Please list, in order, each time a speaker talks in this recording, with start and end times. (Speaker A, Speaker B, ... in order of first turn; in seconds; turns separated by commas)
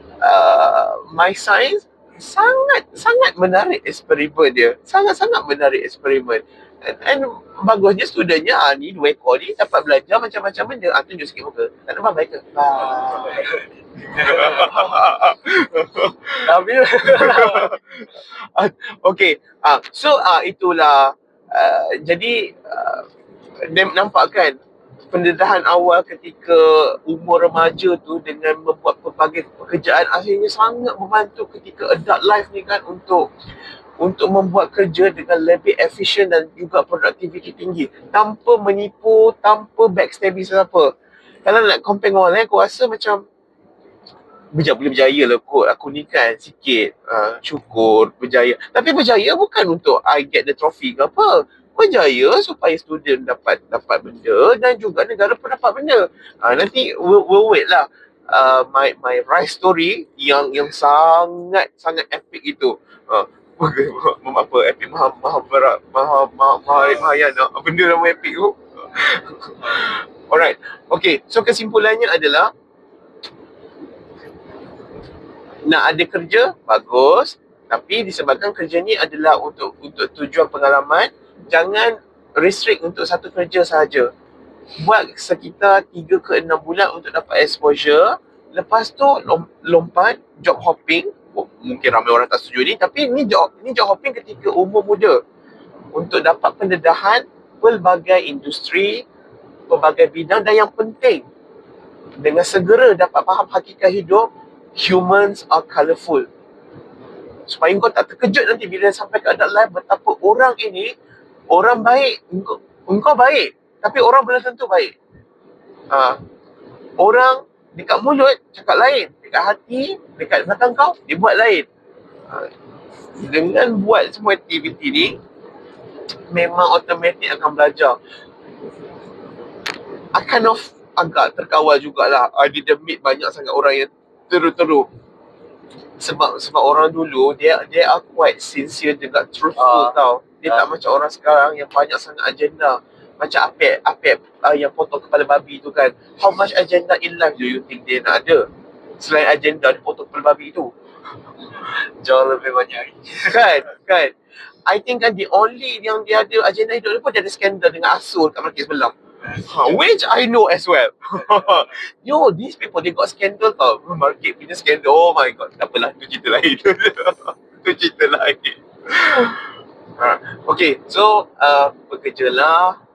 Speaker A: 0.2-13.4, Speaker B: 12.8-15.0, Speaker A: 14.2-16.4, Speaker B: 16.4-17.8, Speaker A: 17.1-23.0, Speaker A: 23.7-24.6, Speaker A: 25.1-33.2, Speaker A: 34.0-40.9, Speaker A: 41.4-43.2, Speaker A: 44.5-72.5, Speaker B: 66.7-67.1, Speaker B: 69.6-69.9, Speaker A: 75.6-84.1, Speaker A: 84.8-95.2, Speaker A: 95.9-99.0, Speaker A: 99.7-101.2, Speaker A: 102.2-106.2, Speaker A: 107.5-110.9, Speaker A: 111.5-114.9, Speaker A: 115.9-116.2, Speaker A: 117.0-121.7, Speaker A: 123.2-125.2, Speaker A: 126.3-128.0, Speaker A: 130.1-134.9, Speaker A: 136.0-148.5, Speaker B: 139.6-139.9, Speaker A: 149.0-150.7, Speaker B: 151.5-153.5, Speaker A: 153.3-154.1, Speaker A: 154.7-158.9, Speaker B: 159.2-159.8, Speaker A: 159.5-169.4, Speaker B: 161.3-161.7, Speaker A: 170.0-172.8